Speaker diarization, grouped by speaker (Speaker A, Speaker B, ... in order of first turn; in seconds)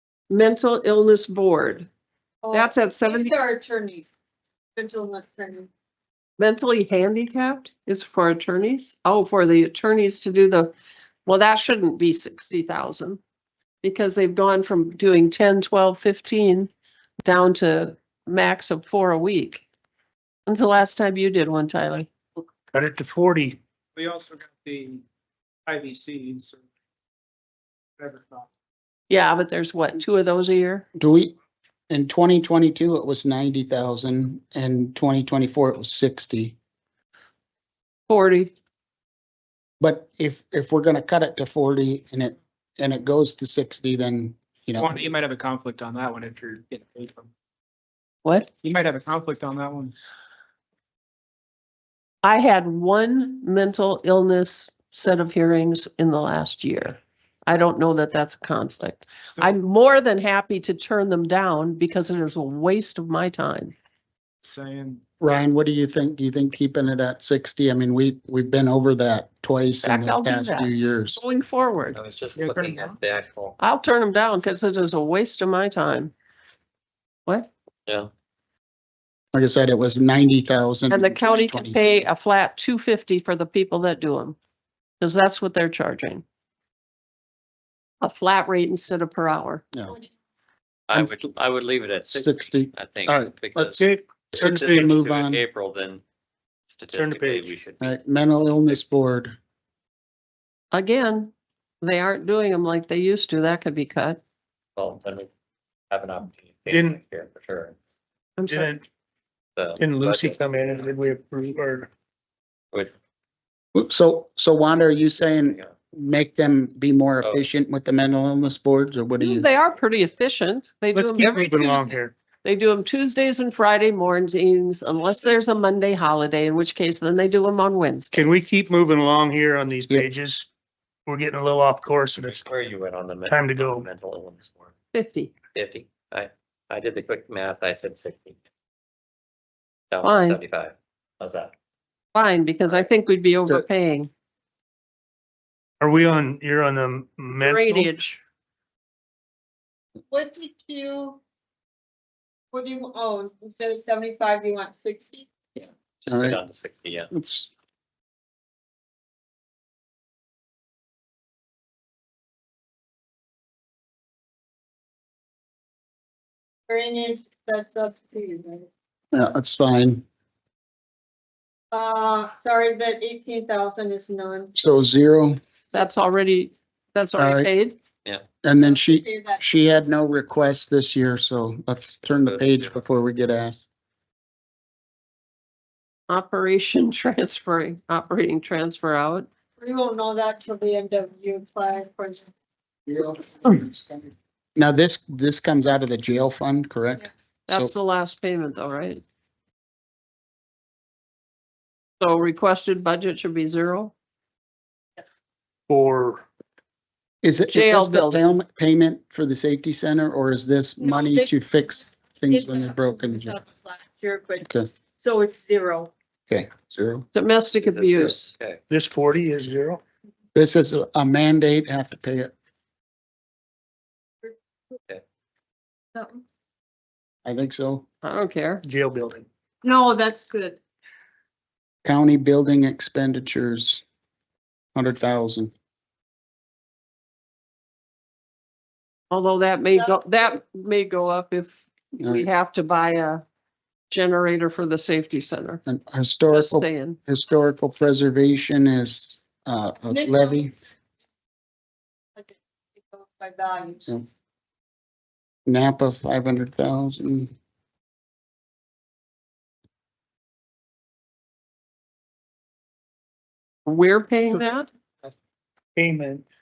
Speaker A: 0.3-1.9, 2.5-3.4, 6.4-10.7, 11.3-13.2, 13.8-16.7, 17.2-19.6, 20.5-22.1, 29.1-30.9, 38.1-38.5, 48.2-48.5, 52.2-63.8, 69.8-72.0, 73.6-76.1, 80.9-84.4, 85.0-86.2, 88.0-89.6, 100.7-104.2, 108.4-108.7, 119.2-128.5, 134.9-135.3, 140.0-140.4, 142.1-144.1, 147.3-148.2, 175.7-177.8, 186.1-189.3, 197.5-199.0, 202.0-203.9, 207.5-208.3, 217.1-218.3, 228.0-228.6, 239.1-243.2, 243.9-245.6, 246.3-247.0, 263.7-264.7
Speaker B: 2.4-4.1, 4.8-5.7, 150.1-151.2, 152.5-155.3, 166.7-168.7, 171.7-174.5, 178.6-179.4, 189.6-192.3, 210.8-211.3, 212.3-214.5, 215.0-215.9, 225.9-226.2, 229.6-230.6, 239.7-240.1, 249.9-250.6, 252.2-253.8
Speaker C: 22.7-23.6, 93.8-94.9, 96.9-97.5, 106.7-107.0, 108.5-108.8, 109.8-111.9, 120.9-122.2, 128.1-130.5, 131.1-132.5, 133.3-133.9, 145.8-147.9, 205.7-206.2, 218.7-219.8, 228.6-229.3, 265.8-266.3
Speaker D: 24.0-25.0, 25.7-26.6, 28.0-28.5, 44.8-47.3, 48.6-49.9, 64.4-65.0, 72.4-73.0
Speaker E: 31.0-31.4, 31.9-36.6, 39.8-45.1, 65.2-71.2, 79.3-81.9, 90.9-91.2, 92.1-93.8, 94.3-95.4, 97.8-99.4, 113.7-119.5, 156.1-156.4, 157.1-157.5, 169.1-170.1, 174.6-175.4, 177.2-177.5, 178.4-183.6, 192.9-197.7, 207.2-213.4, 216.3-217.1, 220.3-222.3, 227.2-227.9, 231.8-233.8, 234.8-235.5, 242.0-242.3, 245.7-250.5, 255.5-257.3
Speaker F: 71.9-73.6, 77.9-78.1, 90.9-93.8, 94.4-96.0, 96.7-98.0, 104.8-105.3, 105.9-107.8, 109.6-110.4, 132.2-134.7, 135.5-138.4, 139.9-141.5, 155.6-157.1, 182.2-182.8, 217.6-218.6